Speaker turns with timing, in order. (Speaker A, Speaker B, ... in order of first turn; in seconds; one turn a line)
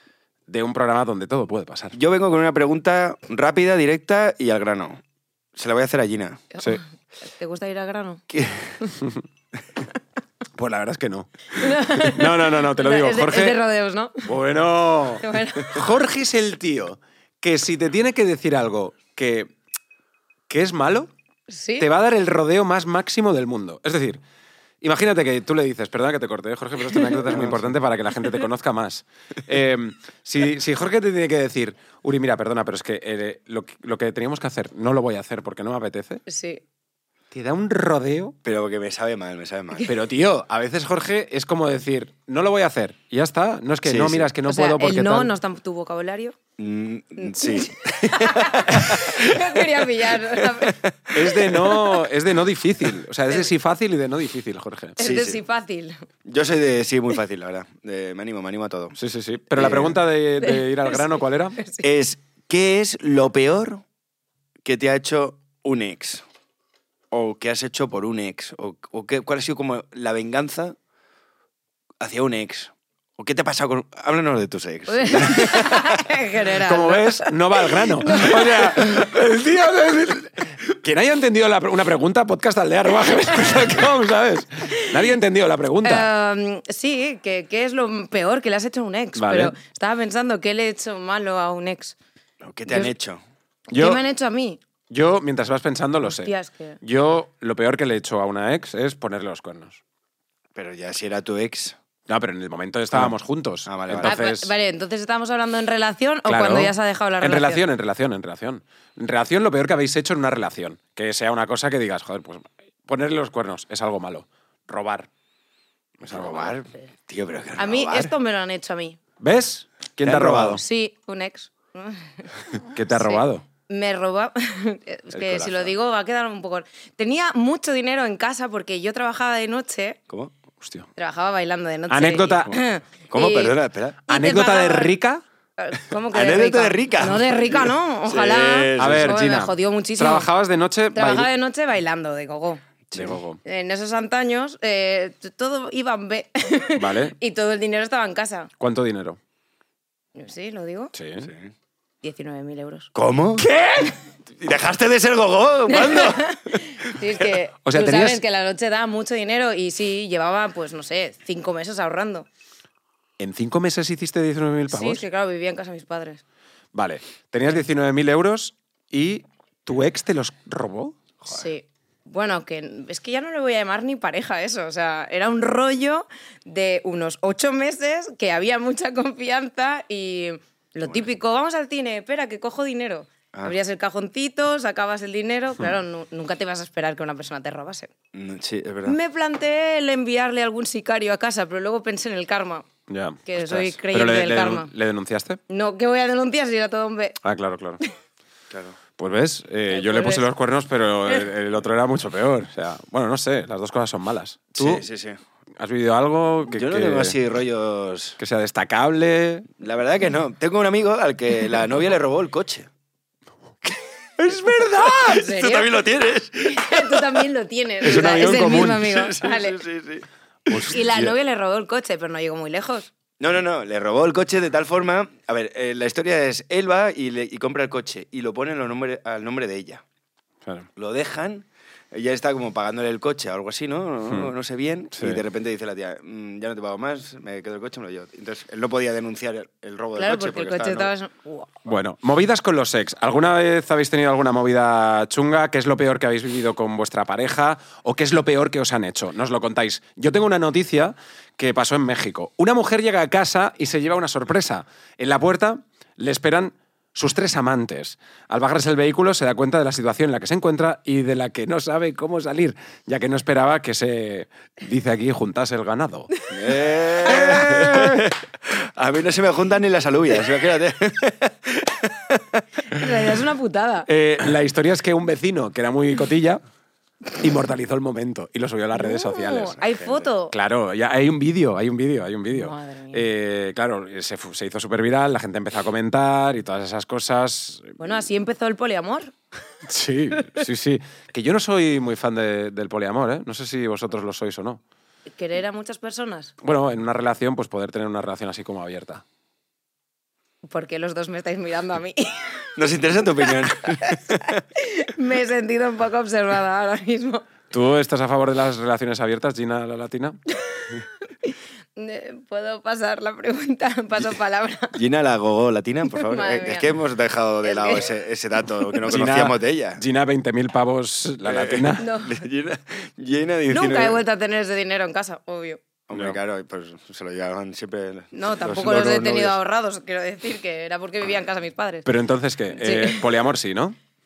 Speaker A: 0.5-1.9
Speaker B: 1.9-5.0
Speaker B: 5.5-6.5
Speaker C: 6.5-8.2
Speaker B: 8.3-8.8
Speaker A: 10.6-13.6
Speaker C: 11.5-14.3
Speaker A: 14.2-19.5
Speaker C: 15.2-15.8
Speaker A: 20.5-21.1
Speaker C: 21.5-21.9
Speaker A: 21.8-24.2
Speaker A: 24.8-36.2
Speaker C: 26.9-27.2
Speaker B: 27.2-27.6
Speaker C: 36.2-36.6
Speaker A: 37.3-38.3
Speaker B: 38.4-39.9
Speaker A: 39.9-45.3
Speaker B: 43.8-44.3
Speaker C: 44.5-46.4
Speaker B: 46.6-51.9
Speaker C: 47.2-50.8
Speaker A: 51.1-55.0
Speaker C: 55.0-56.0
Speaker B: 55.0-55.4
Speaker B: 56.2-59.0
Speaker A: 59.0-61.6
Speaker B: 59.5-59.9
Speaker C: 60.4-61.8
Speaker B: 61.8-63.8
Speaker B: 64.6-66.2
Speaker B: 67.1-70.8
Speaker B: 72.0-76.0
Speaker C: 74.9-79.0
Speaker A: 76.6-86.1
Speaker B: 78.2-79.0
Speaker C: 84.7-85.0
Speaker C: 85.8-92.0
Speaker A: 89.1-89.5
Speaker B: 92.4-93.2
Speaker C: 92.7-92.9
Speaker C: 93.7-94.6
Speaker A: 93.7-94.0
Speaker A: 94.9-99.8
Speaker C: 96.0-96.8
Speaker B: 100.5-101.8
Speaker A: 102.1-104.5
Speaker B: 103.7-104.2
Speaker C: 104.0-107.6
Speaker A: 106.2-115.1
Speaker A: 116.0-116.5
Speaker B: 116.1-118.1
Speaker C: 117.6-119.0
Speaker A: 119.2-120.6
Speaker B: 120.0-120.6
Speaker C: 120.5-130.0
Speaker A: 122.7-123.4
Speaker B: 125.1-125.7
Speaker A: 130.6-130.9
Speaker C: 130.9-133.5
Speaker A: 131.9-132.6
Speaker B: 133.1-134.0
Speaker C: 134.1-134.9
Speaker A: 134.1-135.2
Speaker C: 135.6-140.3
Speaker B: 136.1-139.2
Speaker A: 138.8-141.3
Speaker C: 140.9-142.6
Speaker B: 142.9-143.2
Speaker A: 142.9-143.4
Speaker C: 143.4-148.5
Speaker A: 146.8-147.1
Speaker A: 148.6-149.2
Speaker C: 150.2-150.9
Speaker A: 150.9-151.3
Speaker B: 151.2-151.5
Speaker C: 152.0-152.9
Speaker B: 152.9-153.5
Speaker A: 153.4-153.9
Speaker B: 154.4-156.9
Speaker C: 155.7-162.3
Speaker A: 157.6-158.2
Speaker A: 163.2-165.0
Speaker C: 164.7-166.2
Speaker A: 166.7-171.0
Speaker C: 171.3-187.9
Speaker B: 188.1-188.9
Speaker C: 188.8-192.7
Speaker A: 192.9-195.4
Speaker C: 193.2-194.7
Speaker C: 195.5-197.2
Speaker A: 197.2-197.8
Speaker B: 198.5-198.8
Speaker A: 199.0-204.8
Speaker C: 199.7-200.2
Speaker B: 204.6-205.2
Speaker A: 205.6-207.2
Speaker B: 206.5-208.2
Speaker A: 208.2-209.5
Speaker B: 209.6-212.7
Speaker A: 214.2-215.3
Speaker B: 214.9-217.2
Speaker C: 215.1-215.7
Speaker C: 216.4-219.6
Speaker A: 217.8-218.9
Speaker B: 217.8-220.8
Speaker A: 220.5-221.1
Speaker C: 220.6-222.9
Speaker B: 223.2-229.8
Speaker B: 230.8-240.9
Speaker A: 234.1-234.3
Speaker A: 234.9-235.2
Speaker C: 239.9-241.5
Speaker A: 241.7-266.1
Speaker B: 266.3-272.4
Speaker A: 267.0-268.1
Speaker C: 272.7-273.9
Speaker A: 273.9-276.4
Speaker A: 277.2-279.6
Speaker C: 278.7-280.3
Speaker B: 279.6-280.1
Speaker A: 280.3-287.8
Speaker C: 282.3-283.1
Speaker C: 287.8-289.1
Speaker A: 289.6-294.6
Speaker C: 290.1-290.4
Speaker C: 295.1-296.3
Speaker A: 296.4-299.0
Speaker C: 300.4-302.5
Speaker B: 302.6-304.4
Speaker C: 303.2-307.3
Speaker A: 307.5-310.2
Speaker C: 310.5-314.8
Speaker B: 314.7-319.8
Speaker C: 316.0-316.7
Speaker C: 317.4-318.0
Speaker A: 318.9-321.9
Speaker B: 321.2-324.0
Speaker C: 321.8-322.2
Speaker C: 323.5-325.6
Speaker B: 325.9-329.4
Speaker C: 328.1-331.9
Speaker A: 331.8-333.8
Speaker C: 332.5-333.0